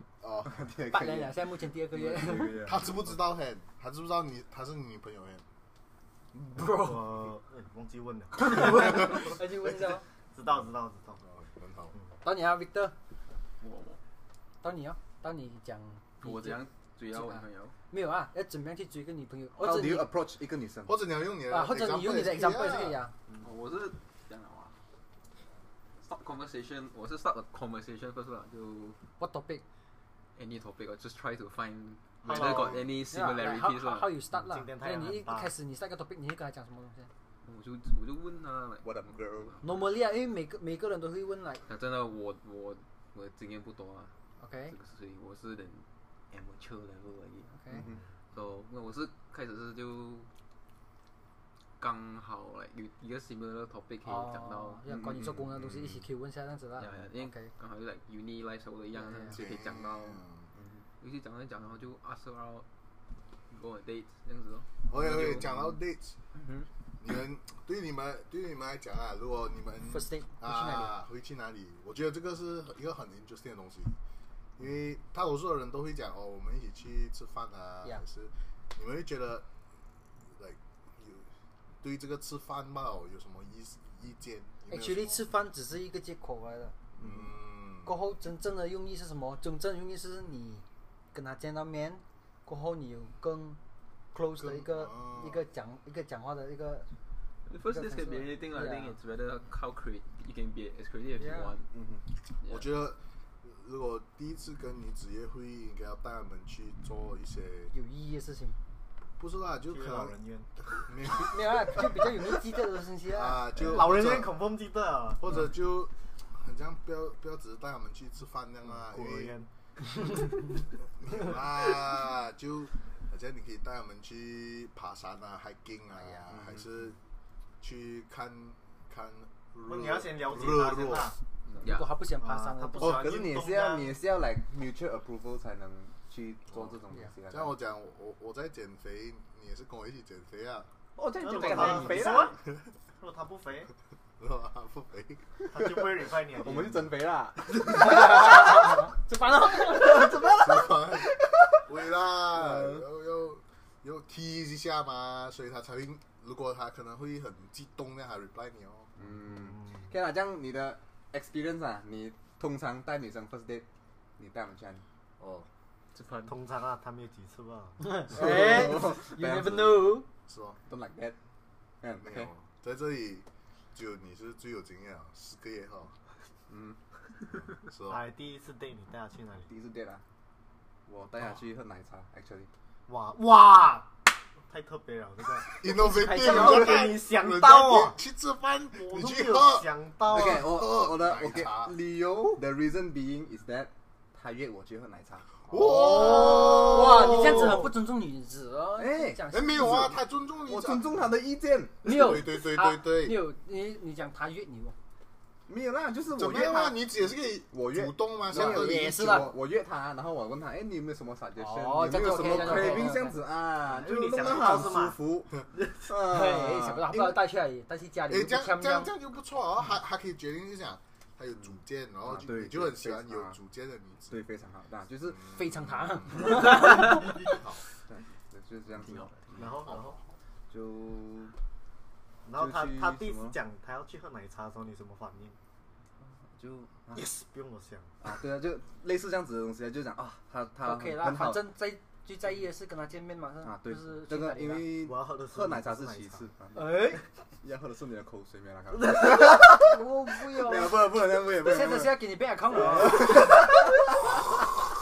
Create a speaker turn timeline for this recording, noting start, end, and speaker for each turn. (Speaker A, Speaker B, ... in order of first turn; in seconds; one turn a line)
Speaker A: 0.2-0.6
Speaker B: 0.4-2.9
Speaker C: 0.8-2.7
Speaker A: 2.6-5.4
Speaker C: 6.4-7.0
Speaker D: 6.7-9.4
Speaker C: 8.4-10.0
Speaker D: 10.3-11.2
Speaker A: 11.2-11.9
Speaker C: 12.2-12.9
Speaker E: 13.6-14.0
Speaker C: 14.6-20.1
Speaker E: 16.2-17.7
Speaker B: 19.6-20.9
Speaker A: 20.9-23.0
Speaker C: 21.5-23.1
Speaker E: 23.4-24.7
Speaker E: 26.0-29.0
Speaker C: 29.2-29.6
Speaker E: 30.4-34.2
Speaker D: 32.2-32.8
Speaker C: 33.0-37.1
Speaker D: 34.4-35.5
Speaker E: 37.4-39.7
Speaker B: 38.8-39.5
Speaker C: 39.6-41.6
Speaker E: 41.7-44.1
Speaker C: 44.4-44.8
Speaker E: 44.7-47.5
Speaker C: 47.5-47.9
Speaker B: 47.7-48.0
Speaker E: 48.3-50.3
Speaker E: 51.8-54.8
Speaker C: 54.0-57.5
Speaker B: 54.9-56.0
Speaker E: 56.8-60.2
Speaker C: 59.0-59.4
Speaker A: 59.3-60.5
Speaker B: 60.5-60.8
Speaker E: 61.0-62.6
Speaker E: 63.5-65.3
Speaker A: 64.9-66.1
Speaker B: 64.9-65.7
Speaker A: 67.0-74.0
Speaker C: 69.9-70.9
Speaker A: 74.6-79.5
Speaker A: 80.3-81.3
Speaker A: 81.8-85.2
Speaker C: 84.7-86.7
Speaker A: 87.0-87.9
Speaker C: 87.8-93.6
Speaker C: 94.1-96.9
Speaker A: 94.4-95.4
Speaker E: 97.5-101.7
Speaker C: 97.6-99.0
Speaker C: 101.2-101.5
Speaker B: 101.7-102.0
Speaker E: 102.4-102.7
Speaker A: 102.5-107.7
Speaker C: 107.7-108.6
Speaker A: 109.2-110.1
Speaker D: 109.7-110.5
Speaker A: 110.8-112.1
Speaker C: 111.0-113.5
Speaker A: 113.1-114.4
Speaker D: 113.5-115.2
Speaker A: 115.2-119.3
Speaker D: 118.7-120.6
Speaker A: 120.8-127.0
Speaker B: 126.3-126.7
Speaker A: 127.6-131.1
Speaker D: 129.6-131.2
Speaker E: 131.6-132.0
Speaker C: 131.6-133.1
Speaker D: 132.2-133.9
Speaker B: 132.8-137.5
Speaker A: 137.3-140.7
Speaker B: 140.9-142.3
Speaker D: 141.2-142.4
Speaker E: 141.6-142.2
Speaker D: 143.0-143.7
Speaker A: 144.2-145.4
Speaker D: 145.5-146.9
Speaker B: 146.3-151.6
Speaker C: 147.7-150.1
Speaker A: 150.3-158.9
Speaker B: 152.2-152.8
Speaker B: 159.0-163.7
Speaker D: 159.3-159.9
Speaker B: 164.2-164.8
Speaker A: 165.2-165.5
Speaker E: 165.9-166.3
Speaker D: 166.3-168.0
Speaker C: 167.8-170.1
Speaker B: 168.1-170.0
Speaker A: 170.3-170.6
Speaker B: 170.7-171.2
Speaker B: 171.8-172.3
Speaker A: 172.0-175.9
Speaker B: 176.5-176.8
Speaker A: 177.7-178.0
Speaker D: 177.8-179.5
Speaker B: 179.5-180.0
Speaker B: 180.9-182.5
Speaker D: 182.9-188.0
Speaker A: 185.5-191.7
Speaker D: 188.7-190.6
Speaker B: 190.1-197.3
Speaker A: 195.5-197.7
Speaker C: 195.6-199.9
Speaker B: 198.8-199.9
Speaker A: 199.3-201.1
Speaker B: 200.4-202.1
Speaker A: 201.8-203.2
Speaker C: 201.8-204.7
Speaker B: 205.5-217.2
Speaker A: 206.1-209.2
Speaker C: 208.3-209.3
Speaker C: 211.4-213.2
Speaker D: 213.6-215.9
Speaker C: 215.9-218.9
Speaker A: 218.1-224.2
Speaker B: 221.4-223.4
Speaker B: 224.1-225.2
Speaker A: 225.1-227.6
Speaker C: 225.2-226.9
Speaker B: 227.9-229.5
Speaker E: 228.8-229.3
Speaker D: 229.3-230.0
Speaker B: 230.5-231.3
Speaker D: 232.2-235.4
Speaker B: 232.4-233.3
Speaker B: 236.0-237.0
Speaker D: 236.9-237.9
Speaker B: 238.0-241.4
Speaker C: 240.6-244.7
Speaker B: 243.4-246.8
Speaker D: 244.7-246.3
Speaker C: 246.5-247.0
Speaker B: 247.4-249.8
Speaker C: 249.4-253.2
Speaker B: 250.3-252.0
Speaker B: 252.6-253.5